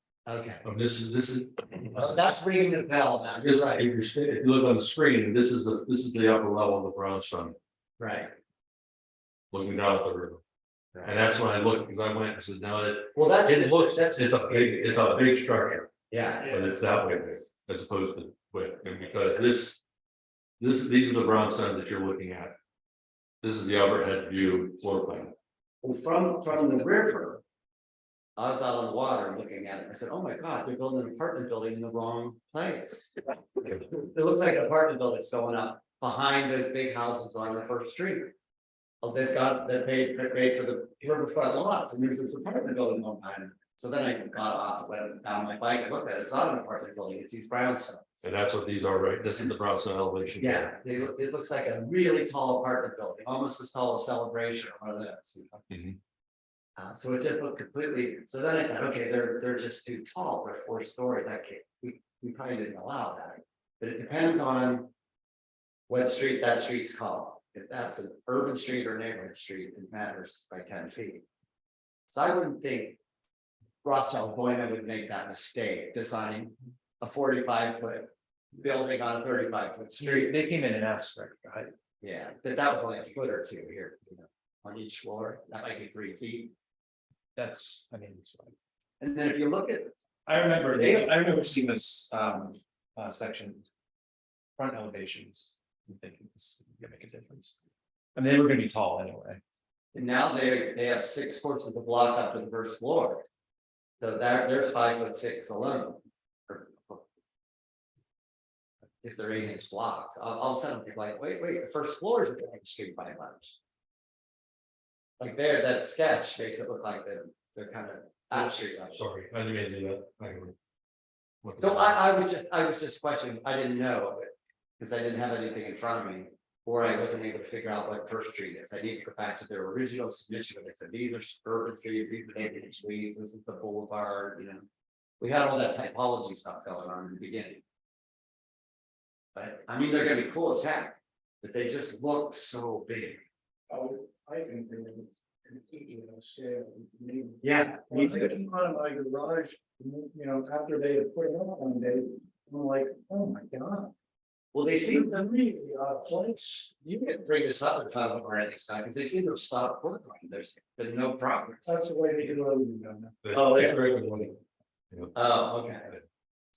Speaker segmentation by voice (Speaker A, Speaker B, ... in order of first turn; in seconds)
Speaker A: 0.2-0.7, 1.9-3.9, 8.0-8.3, 10.9-11.2, 13.1-15.2, 16.1-16.9, 25.8-27.4, 28.4-38.3, 39.0-48.2, 50.4-55.7, 56.8-64.9, 65.9-71.2, 72.1-73.0, 73.8-80.3, 82.0-86.5, 89.0-89.9, 90.7-91.2, 99.9-103.3, 104.0-107.0, 109.0-113.6, 115.2-119.0, 121.6-134.7, 135.2-137.6, 139.3-143.2, 147.4-148.4, 154.5-155.2, 156.8-161.8, 163.3-163.8, 165.1-165.9
Speaker B: 0.6-2.4, 3.4-7.5, 9.5-10.4, 11.0-15.9, 16.4-19.8, 20.6-22.5, 23.4-25.3, 48.2-50.7, 55.7-56.0, 118.9-120.5, 121.4-122.0, 163.2-164.4
Speaker C: 80.0-81.7, 87.3-88.5, 90.2-93.7, 94.6-97.6, 98.1-99.4
Speaker D: 143.7-153.9, 154.8-156.8, 161.6-163.2